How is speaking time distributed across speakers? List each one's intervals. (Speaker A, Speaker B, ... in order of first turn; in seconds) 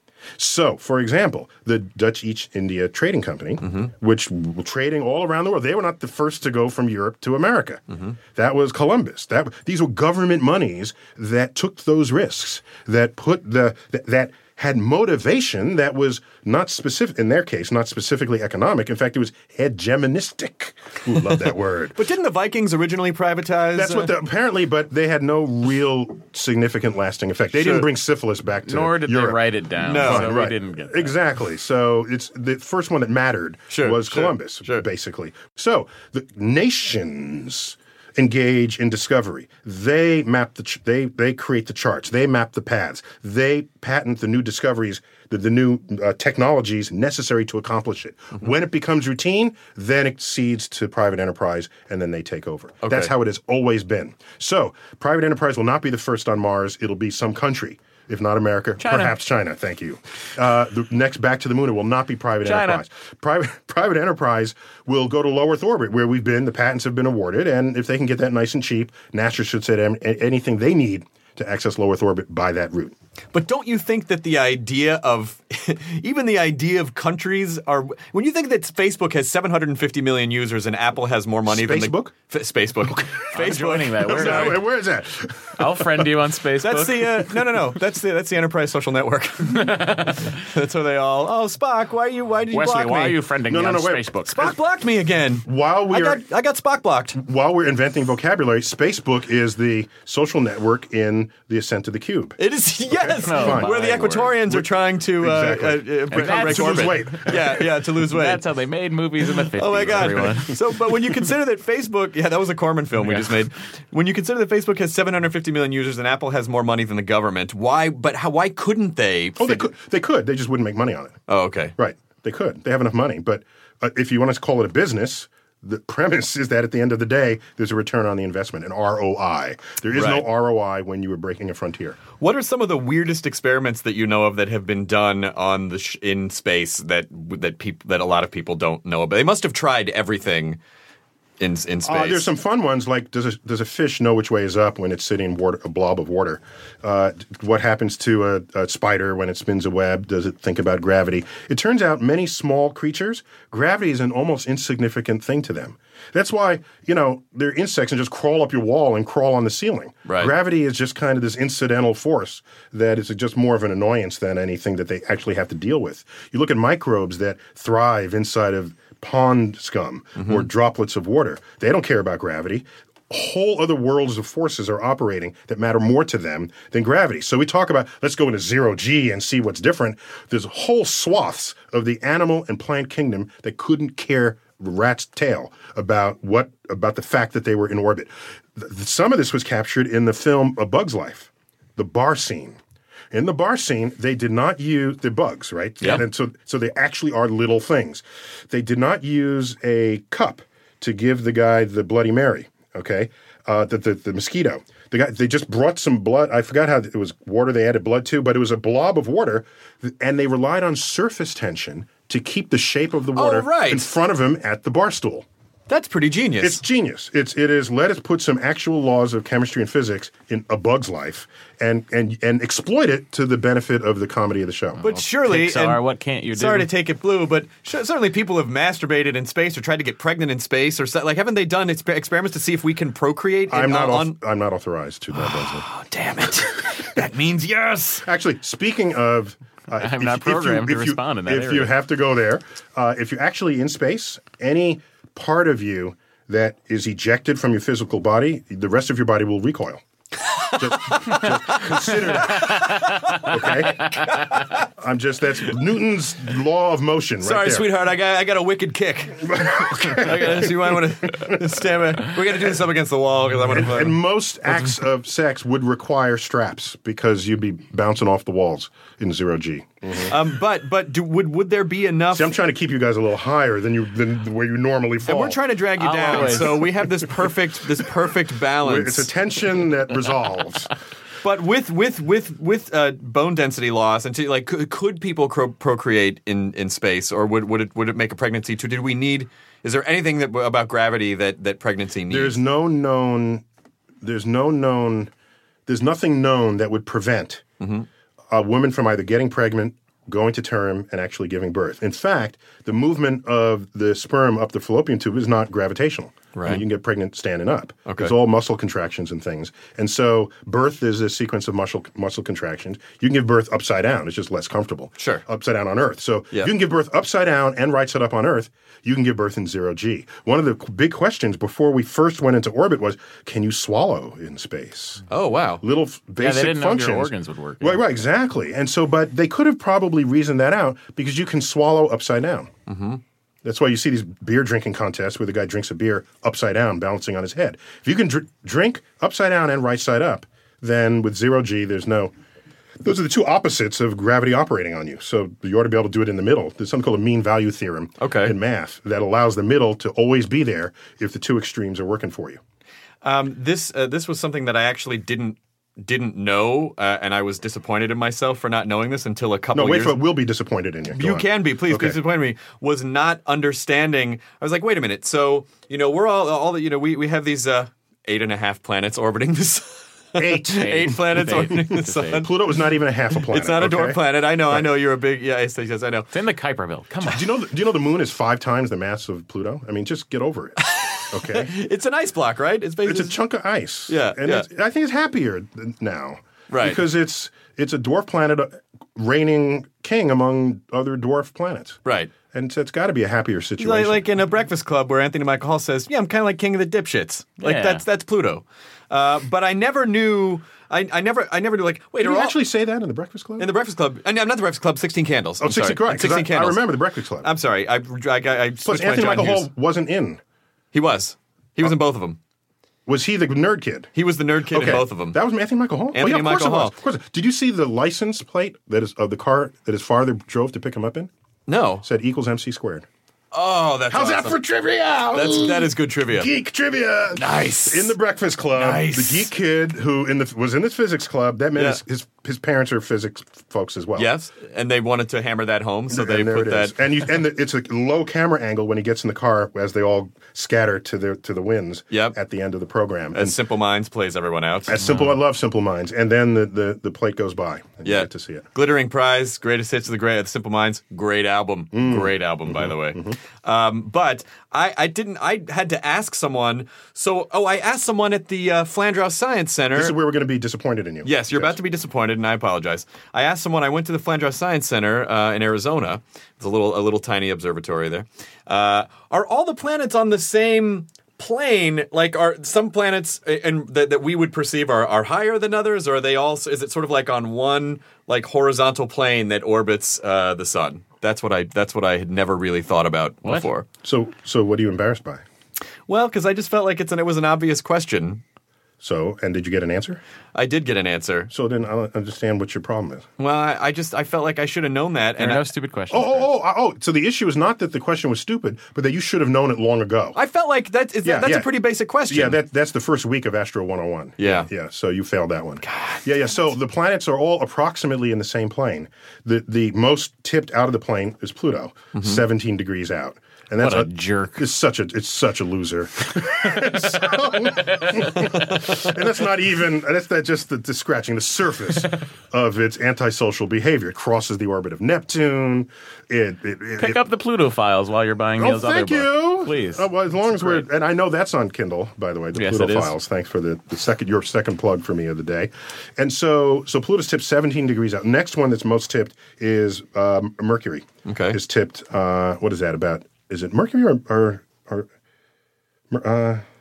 Speaker A: 0.4-7.8, 8.3-22.0, 23.7-72.9, 81.5-82.1, 82.8-83.2, 84.0-86.1, 93.5-94.1, 95.4-96.2, 97.1-102.4, 102.9-107.7, 119.4-121.2, 121.8-132.0, 141.8-192.6, 193.1-215.2, 216.4-224.8, 233.5-235.7, 238.0-249.8, 250.6-254.2, 254.8-257.7, 259.2-261.4, 263.4-270.1, 272.1-275.4, 276.1-276.6, 278.6-280.7, 292.1-293.4, 294.0-295.1, 295.7-297.4, 298.3-325.0, 325.6-332.5, 333.4-342.1, 342.8-352.4, 359.5-362.0, 370.1-374.7, 377.0-381.5, 382.8-394.1, 402.0-403.5, 405.4-407.3, 408.6-410.2, 412.9-413.9, 414.5-421.1, 421.8-422.9, 423.9-434.1, 435.9-443.4, 444.7-448.5, 451.7-453.2, 459.7-461.6, 483.8-485.2, 488.8-490.0, 491.3-493.1, 495.9-500.2, 501.0-527.0, 528.4-544.9, 545.9-546.4
Speaker B: 3.6-3.9, 7.9-8.2, 21.9-24.1, 27.5-27.9, 29.8-30.4, 33.7-34.8, 52.8-53.1, 73.3-84.6, 86.6-93.2, 94.3-97.2, 102.4-108.4, 109.5-119.7, 121.3-121.7, 129.9-130.3, 132.2-140.6, 141.4-142.3, 160.1-160.3, 170.2-170.5, 213.1-213.9, 215.7-216.6, 224.8-225.8, 226.3-234.1, 235.2-238.0, 250.8-251.2, 252.4-253.3, 254.1-254.4, 257.2-264.0, 270.0-272.3, 275.1-279.1, 281.2-292.4, 297.6-297.9, 306.3-306.6, 307.9-308.1, 325.1-325.6, 332.7-333.0, 348.0-348.3, 353.0-360.0, 360.9-372.3, 373.2-376.1, 380.6-383.2, 383.9-384.4, 386.5-386.8, 391.8-392.1, 393.6-402.4, 403.4-406.6, 407.2-409.5, 410.7-412.2, 413.9-415.2, 415.9-416.8, 421.5-421.8, 423.3-424.4, 425.1-426.3, 427.1-427.9, 428.5-429.3, 434.0-436.7, 443.1-444.9, 447.8-459.9, 461.0-483.6, 485.9-488.2, 490.3-491.3, 493.2-495.5, 500.1-502.4, 504.2-504.5, 505.7-506.0, 511.9-512.2, 541.0-541.4
Speaker C: 28.6-31.1, 58.8-59.1, 62.4-62.8, 83.3-84.6, 85.6-87.3, 89.5-90.3, 92.5-94.5, 103.2-104.4, 106.1-110.6, 113.0-113.4, 224.8-226.7, 239.8-241.8, 275.8-277.0, 326.2-327.8, 370.5-372.3, 376.1-377.3, 397.4-397.8, 495.2-496.3, 513.6-514.5, 526.8-530.6, 532.3-532.9